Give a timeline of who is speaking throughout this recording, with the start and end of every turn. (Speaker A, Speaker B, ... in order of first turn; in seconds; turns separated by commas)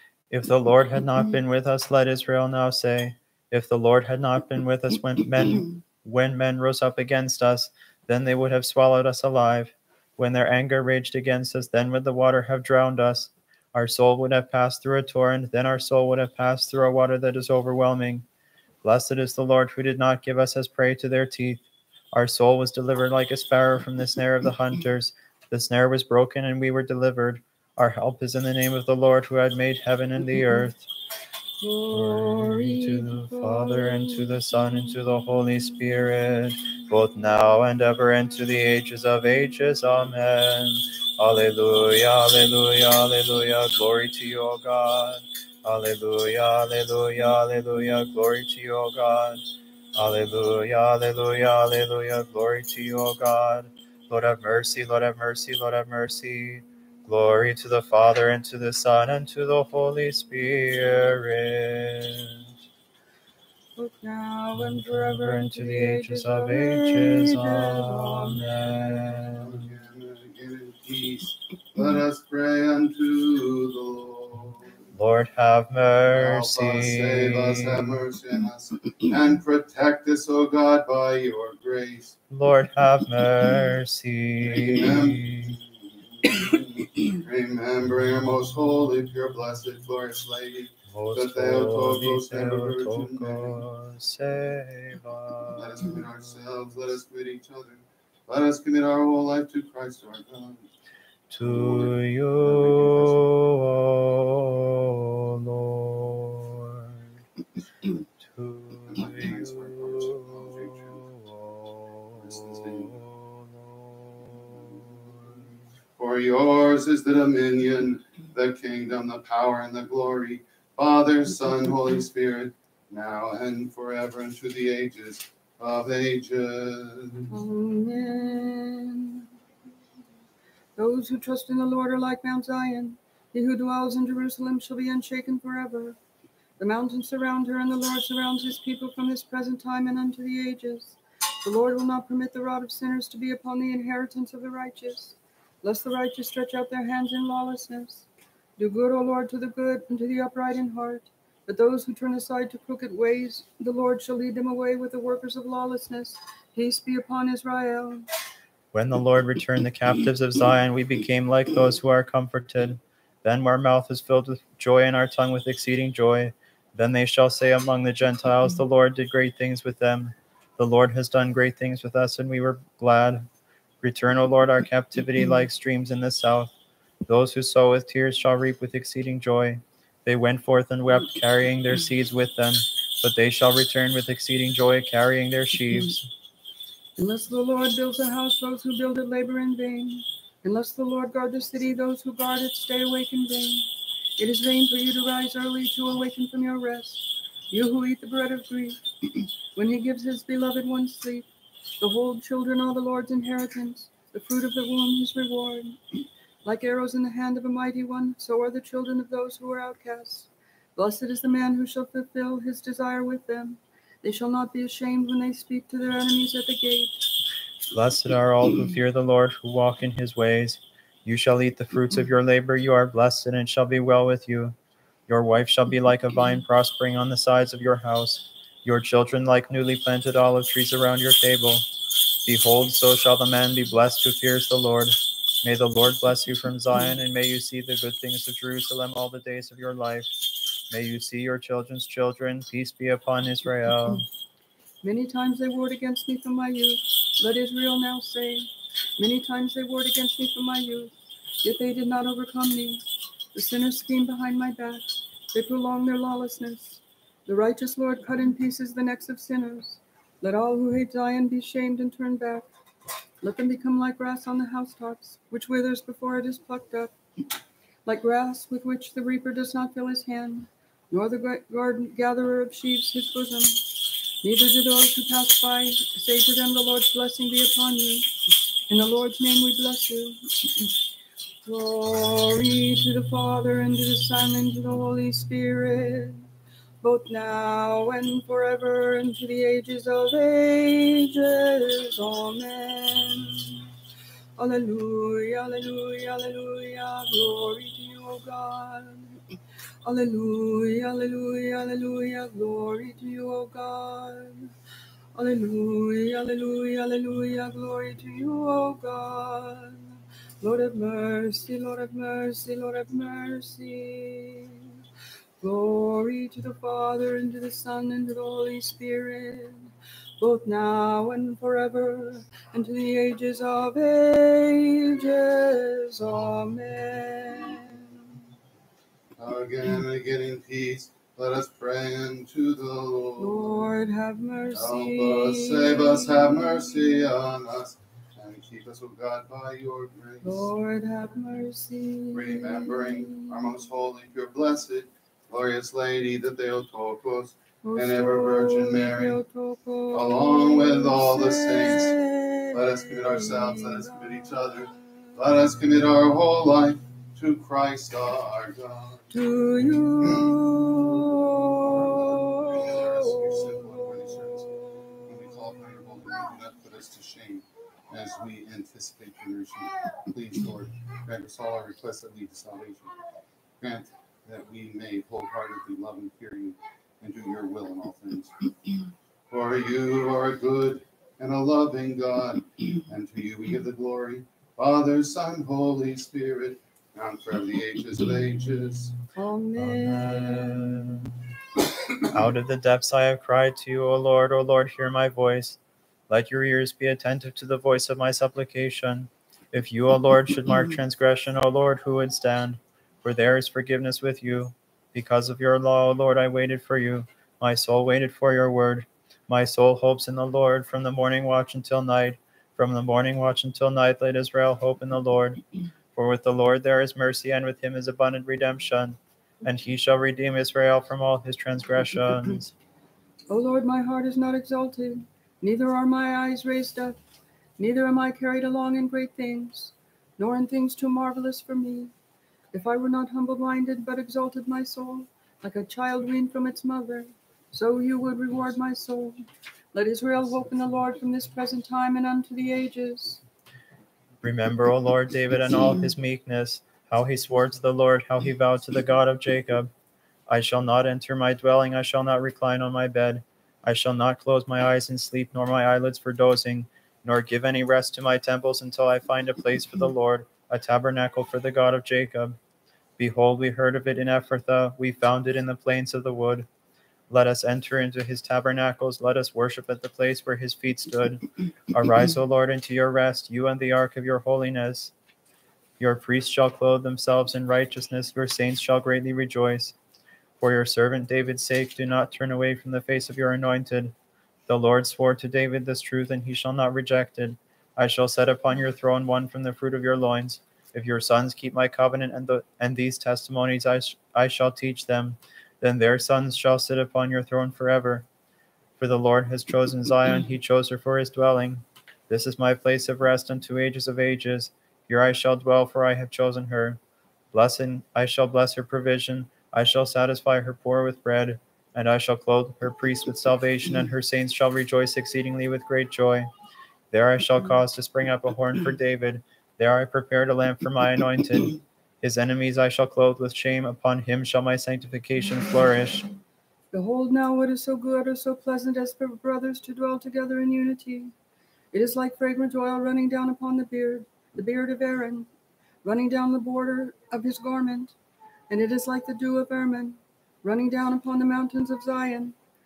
Speaker A: 0.3-18.2, Speaker A: 18.8-30.9, Speaker B: 31.6-34.3, Speaker A: 31.9-49.4, Speaker A: 49.9-62.5, Speaker B: 63.8-68.4, Speaker A: 64.9-69.7, Speaker C: 69.3-74.8, Speaker A: 74.9-78.0, Speaker C: 76.1-82.2, Speaker A: 82.3-85.6, Speaker C: 84.4-93.6, Speaker A: 90.9-96.0, Speaker C: 95.5-100.7, Speaker A: 101.3-107.1, Speaker C: 101.4-103.3, Speaker A: 108.2-115.5, Speaker C: 108.9-111.1, Speaker C: 112.2-113.0, Speaker C: 114.5-127.3, Speaker B: 127.3-129.3, Speaker B: 130.8-136.0, Speaker B: 136.6-148.1, Speaker B: 148.6-158.1, Speaker A: 158.7-173.3, Speaker A: 173.8-176.5, Speaker A: 177.1-186.1, Speaker B: 187.0-198.8, Speaker B: 199.5-201.3, Speaker B: 201.8-205.8, Speaker B: 206.4-217.0, Speaker A: 217.7-224.6, Speaker A: 225.1-231.6, Speaker A: 232.2-244.0, Speaker B: 244.8-262.5, Speaker B: 263.2-266.9, Speaker B: 267.8-278.1, Speaker B: 278.7-280.7, Speaker B: 281.4-286.2, Speaker B: 286.8-293.7, Speaker B: 294.4-299.2, Speaker B: 299.8-304.5, Speaker B: 305.1-314.7, Speaker B: 315.4-328.2, Speaker C: 329.2-333.6, Speaker B: 333.2-337.1, Speaker C: 334.5-340.5, Speaker B: 340.2-343.4, Speaker C: 342.1-349.2, Speaker B: 347.6-354.8, Speaker C: 349.9-351.9, Speaker C: 352.5-359.0, Speaker B: 359.1-364.1, Speaker C: 360.0-360.3, Speaker C: 361.8-372.9, Speaker C: 373.6-378.4, Speaker C: 379.3-389.0, Speaker B: 389.1-390.7, Speaker A: 389.6-391.2, Speaker A: 392.0-415.4, Speaker A: 415.9-422.5, Speaker B: 423.3-427.0, Speaker B: 427.6-431.9, Speaker B: 432.5-439.2, Speaker B: 439.7-443.2, Speaker A: 444.2-449.7, Speaker A: 450.3-462.4, Speaker A: 463.0-466.5, Speaker A: 467.1-474.9, Speaker A: 475.8-479.8, Speaker A: 480.4-483.9, Speaker A: 484.5-498.1, Speaker A: 498.8-506.8, Speaker A: 507.3-516.3, Speaker A: 516.9-526.1, Speaker B: 526.7-531.1, Speaker B: 531.7-535.3, Speaker B: 535.8-537.9, Speaker B: 538.5-542.4